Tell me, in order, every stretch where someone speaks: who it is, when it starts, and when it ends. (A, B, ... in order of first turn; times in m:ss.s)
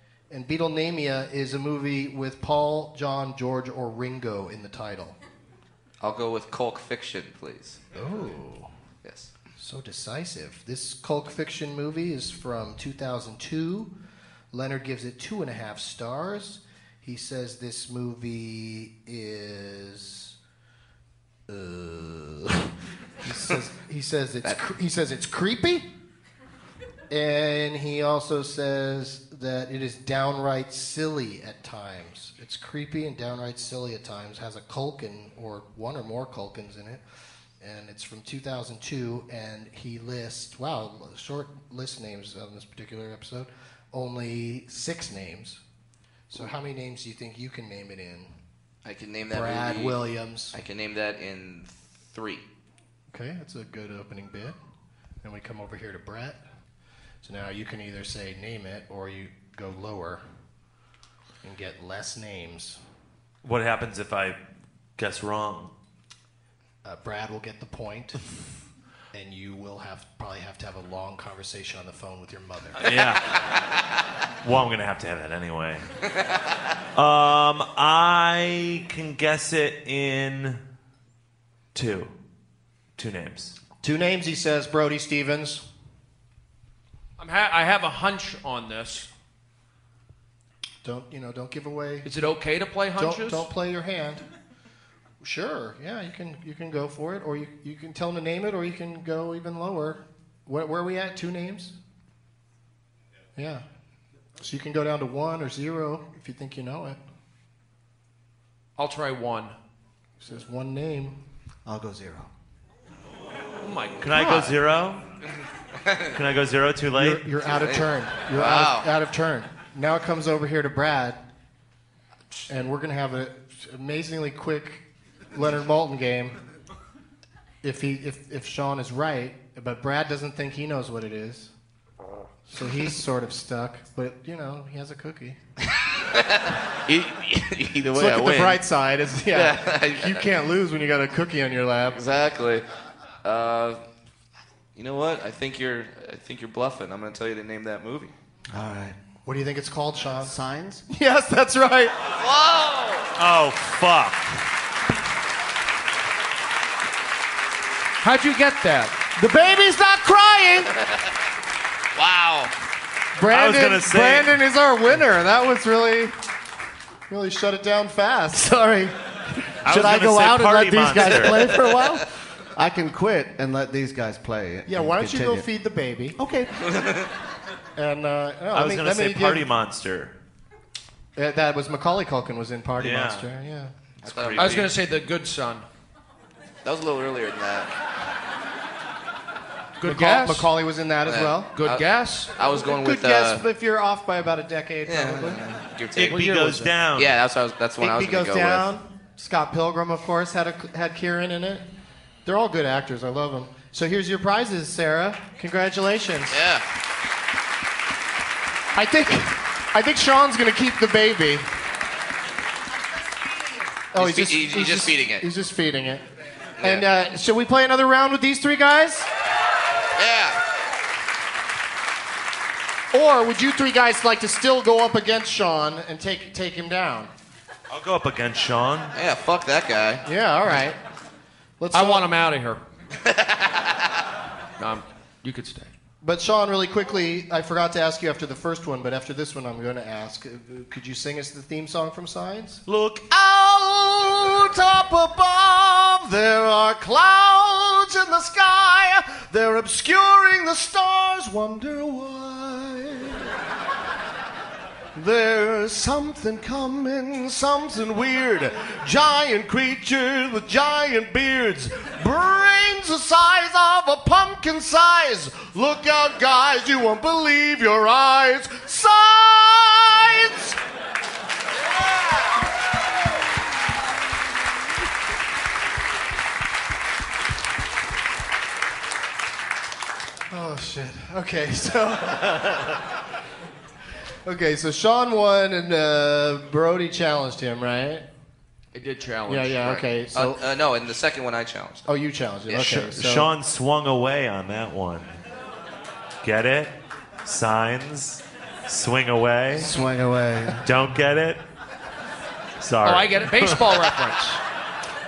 0:00.3-0:05.2 A
0:06.0-0:07.8 B
0:07.9-0:08.7 A
0:09.0-0:09.3 B
0:09.6-0:13.9 A
0:14.5-0:20.3 A
0:21.5-0:25.9 A
0:27.1-0:37.0 A
0:37.6-0:45.6 A
0:46.3-0:48.3 A
0:48.8-0:52.4 B
0:49.3-0:50.6 A
0:53.1-0:54.6 A
0:55.2-0:56.4 A
0:57.2-1:00.2 A
1:01.4-1:02.8 A
1:03.4-1:04.4 C
1:05.0-1:05.7 C
1:06.8-1:08.2 A
1:09.1-1:12.8 A
1:12.8-1:13.4 C
1:14.4-1:15.8 C
1:16.9-1:20.6 C
1:21.7-1:22.1 C
1:23.0-1:23.5 C
1:23.8-1:25.6 A
1:27.2-1:29.1 D
1:30.8-1:32.1 A
1:32.0-1:33.5 D
1:33.0-1:34.2 A
1:35.2-1:41.8 A
1:43.4-1:43.6 A
1:44.4-1:47.0 A
1:48.8-1:49.6 D
1:50.2-1:51.2 A
1:51.6-1:52.3 E
1:53.6-1:54.6 D
1:54.0-1:55.0 C
1:56.1-1:57.3 C
1:56.9-2:01.2 A
1:57.5-1:58.9 B
2:02.5-2:06.4 A
2:07.6-2:11.5 A
2:12.5-2:15.4 A
2:16.1-2:18.6 B
2:17.9-2:22.0 A
2:19.3-2:20.3 B
2:21.9-2:22.6 B
2:23.2-2:23.8 B
2:24.8-2:28.1 B
2:28.5-2:29.0 E
2:29.2-2:30.3 A
2:30.2-2:30.8 E
2:30.9-2:31.9 A
2:32.1-2:33.1 B
2:33.2-2:34.4 C
2:38.0-2:39.0 D
2:39.2-2:40.7 E
2:41.9-2:42.5 B
2:43.2-2:46.1 A
2:43.3-2:44.3 C
2:47.1-2:48.5 A
2:48.3-2:48.9 E
2:49.6-2:51.5 C
2:49.6-2:55.5 E
2:49.7-2:52.0 A
2:54.7-2:56.2 A
2:56.2-2:56.7 E
2:56.7-2:57.1 B
2:57.8-2:59.4 A
2:58.5-3:00.1 C
3:01.2-3:03.7 A
3:02.8-3:03.3 C
3:04.0-3:04.7 C
3:04.0-3:04.7 B
3:04.4-3:05.7 D
3:06.6-3:07.7 B
3:09.8-3:10.5 D
3:09.8-3:11.5 A
3:11.0-3:13.4 B
3:11.5-3:12.3 D
3:12.5-3:15.4 A
3:14.9-3:16.2 B
3:15.9-3:17.1 C
3:16.0-3:16.8 D
3:16.9-3:18.7 B
3:17.8-3:21.6 A
3:22.2-3:26.4 A
3:26.3-3:26.6 B
3:28.8-3:31.5 A
3:33.9-3:36.0 A
3:34.0-3:35.2 B
3:36.6-3:36.8 B
3:36.6-3:39.1 A
3:40.0-3:40.4 B
3:42.9-3:47.1 A
3:47.7-3:49.0 C
3:48.9-3:50.0 B
3:50.0-3:50.8 A
3:51.6-3:52.0 A
3:51.7-3:52.6 D
3:53.0-3:53.6 B
3:54.6-3:55.7 D
3:56.0-4:02.6 A
4:02.7-4:03.0 C
4:03.1-4:13.3 E
4:14.9-4:30.6 E
4:40.3-4:42.8 A
4:44.2-4:48.0 A
4:48.7-4:49.6 D
4:49.3-4:50.4 A
4:49.6-4:51.8 B
4:51.8-4:53.3 A
4:52.5-4:55.2 C
4:56.2-4:59.7 C
4:59.5-5:00.7 E
5:00.6-5:01.4 C
5:02.6-5:03.9 C
5:02.8-5:04.4 D